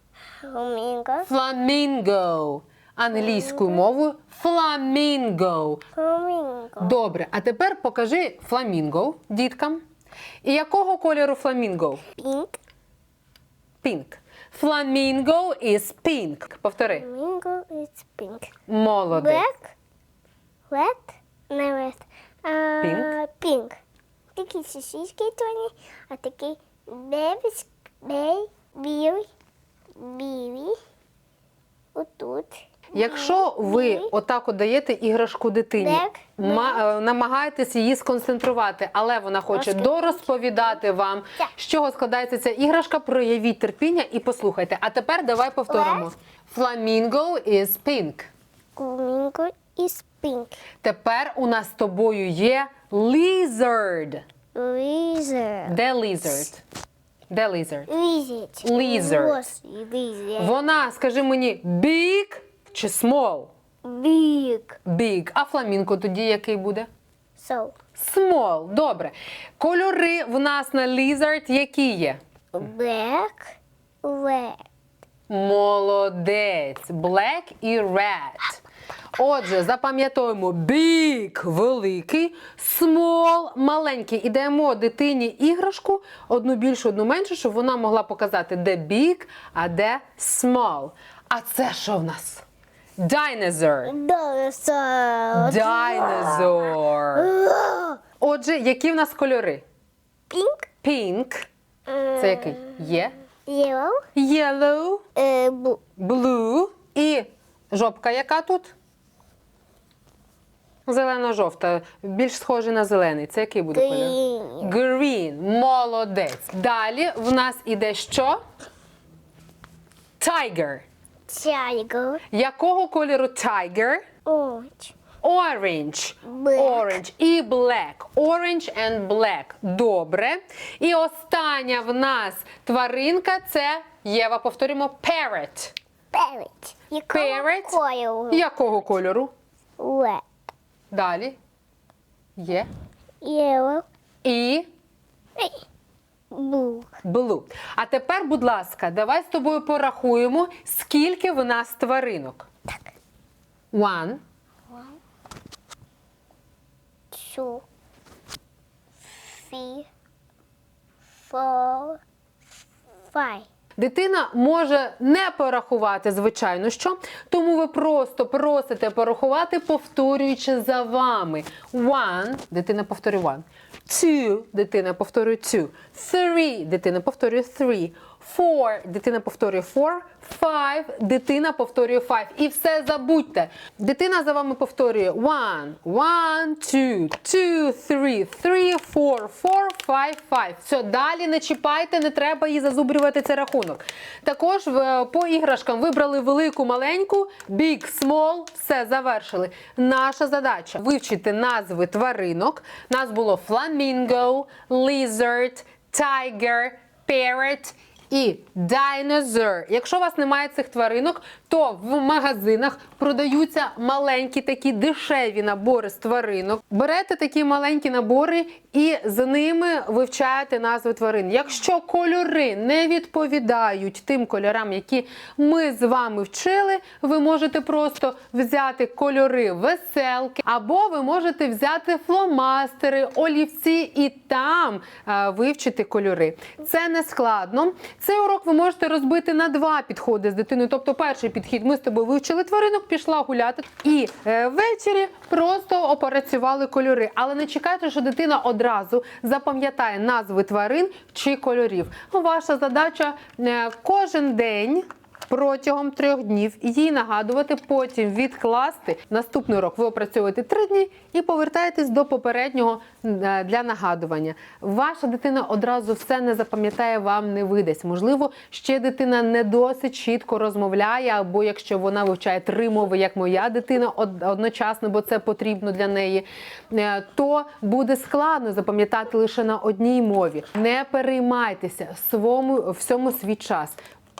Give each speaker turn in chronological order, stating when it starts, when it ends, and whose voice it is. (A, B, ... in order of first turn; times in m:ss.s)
0:00.4-0:01.3 A
0:01.2-0:05.8 B
0:03.1-0:03.8 A
0:05.9-0:07.0 A
0:06.8-0:09.8 B
0:10.4-0:12.0 B
0:12.2-0:12.6 A
0:13.8-0:17.1 B
0:16.9-0:18.5 A
0:18.7-0:19.4 B
0:19.1-0:19.7 A
0:20.7-0:23.7 A
0:22.8-0:23.1 B
0:24.3-0:29.3 A
0:30.0-0:30.8 A
0:31.9-0:34.1 A
0:32.9-0:48.3 B
0:35.8-0:36.8 A
0:39.5-0:40.3 A
0:45.7-0:46.1 A
0:48.8-0:50.6 A
0:50.8-0:54.2 B
0:54.5-0:55.8 A
0:55.7-0:56.6 B
0:57.3-0:57.9 B
0:57.9-1:00.6 A
0:58.6-0:59.5 B
1:00.4-1:03.5 B
1:03.8-1:04.8 A
1:04.8-1:06.9 B
1:07.4-1:07.7 A
1:07.9-1:12.2 B
1:12.5-1:14.6 A
1:15.3-1:18.6 B
1:19.2-1:32.4 B
1:33.0-1:33.9 B
1:33.8-1:38.0 A
1:35.3-1:37.3 B
1:38.2-1:39.6 B
1:40.3-1:40.7 A
1:40.8-1:41.5 B
1:41.9-1:42.9 A
1:42.2-1:43.2 B
1:43.4-1:44.0 A
1:44.1-1:45.0 B
1:45.2-1:45.8 A
1:46.0-1:48.7 B
1:50.8-1:58.4 B
1:53.7-1:54.7 A
2:00.2-2:00.8 B
2:01.3-2:02.2 A
2:02.3-2:04.0 B
2:04.2-2:04.9 A
2:05.2-2:15.7 B
2:06.2-2:07.0 A
2:16.1-2:18.4 A
2:17.1-2:17.8 B
2:18.3-2:19.3 B
2:19.8-2:20.2 A
2:20.9-2:21.4 B
2:22.4-2:22.7 B
2:23.2-2:23.8 A
2:24.2-2:24.7 B
2:25.4-2:25.6 A
2:26.3-2:26.9 A
2:27.0-2:32.5 B
2:33.7-2:34.2 B
2:37.1-2:37.6 A
2:39.1-2:39.9 A
2:41.2-2:42.0 A
2:43.1-2:43.5 A
2:43.8-4:43.8 B